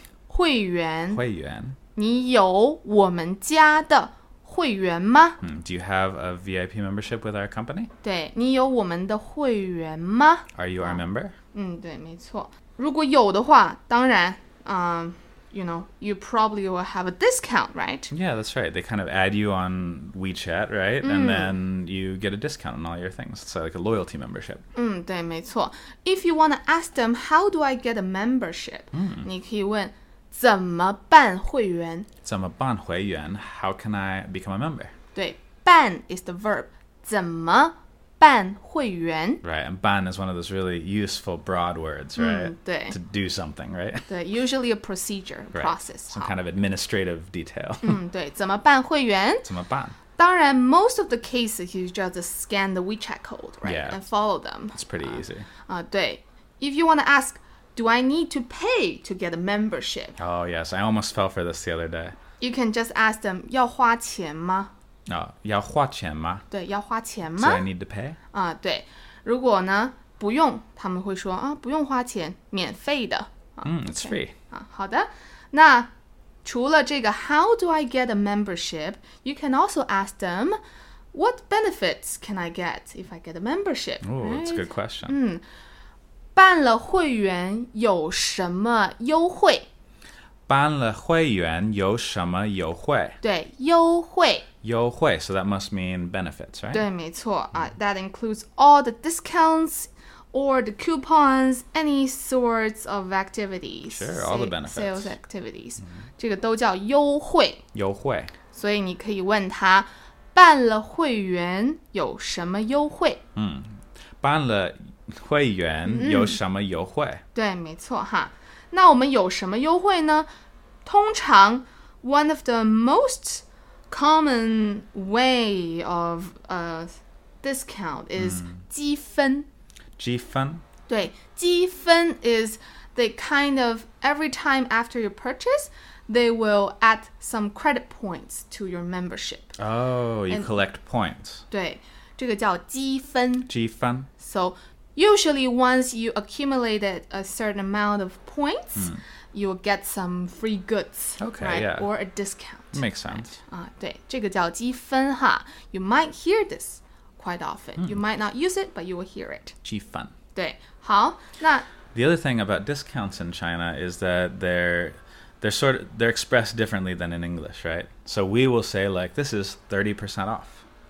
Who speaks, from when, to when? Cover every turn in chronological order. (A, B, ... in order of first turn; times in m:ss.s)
0:00.3-0:01.2 A
0:01.1-0:01.8 B
0:01.9-0:05.4 A
0:05.4-0:07.9 B
0:08.0-0:18.1 A
0:10.6-0:11.3 B
0:18.1-0:24.6 B
0:21.0-0:21.5 A
0:24.7-0:32.1 A
0:28.9-0:29.2 B
0:32.2-0:34.9 B
0:35.1-0:39.4 A
0:39.4-0:44.1 B
0:42.2-0:43.0 A
0:44.1-0:46.3 A
0:45.5-0:48.0 B
0:47.8-0:49.5 A
0:49.4-0:50.0 B
0:50.2-1:00.2 A
0:53.6-0:54.0 B
0:54.7-0:55.4 B
1:00.2-1:02.2 B
1:02.4-1:04.7 A
1:05.1-1:06.4 B
1:06.5-1:07.6 A
1:07.4-1:08.2 B
1:08.3-1:15.9 A
1:13.6-1:14.3 B
1:16.4-1:20.6 A
1:21.1-1:25.4 A
1:24.0-1:25.1 B
1:26.4-1:29.7 A
1:30.5-1:33.2 B
1:33.2-1:34.4 A
1:34.6-1:36.8 B
1:36.7-1:47.6 A
1:43.9-1:45.1 B
1:47.7-1:48.3 B
1:48.5-1:53.2 A
1:53.4-1:57.2 B
1:55.9-1:56.4 A
1:57.3-2:00.3 A
2:00.8-2:09.5 A
2:08.2-2:08.5 B
2:10.0-2:10.6 B
2:10.9-2:19.5 A
2:19.6-2:21.4 B
2:21.5-2:23.5 A
2:23.5-2:24.1 B
2:24.2-2:39.6 A
2:28.8-2:29.0 B
2:31.2-2:31.9 B
2:32.7-2:33.4 B
2:39.6-2:40.1 B
2:40.3-2:41.7 A
2:41.9-2:50.6 B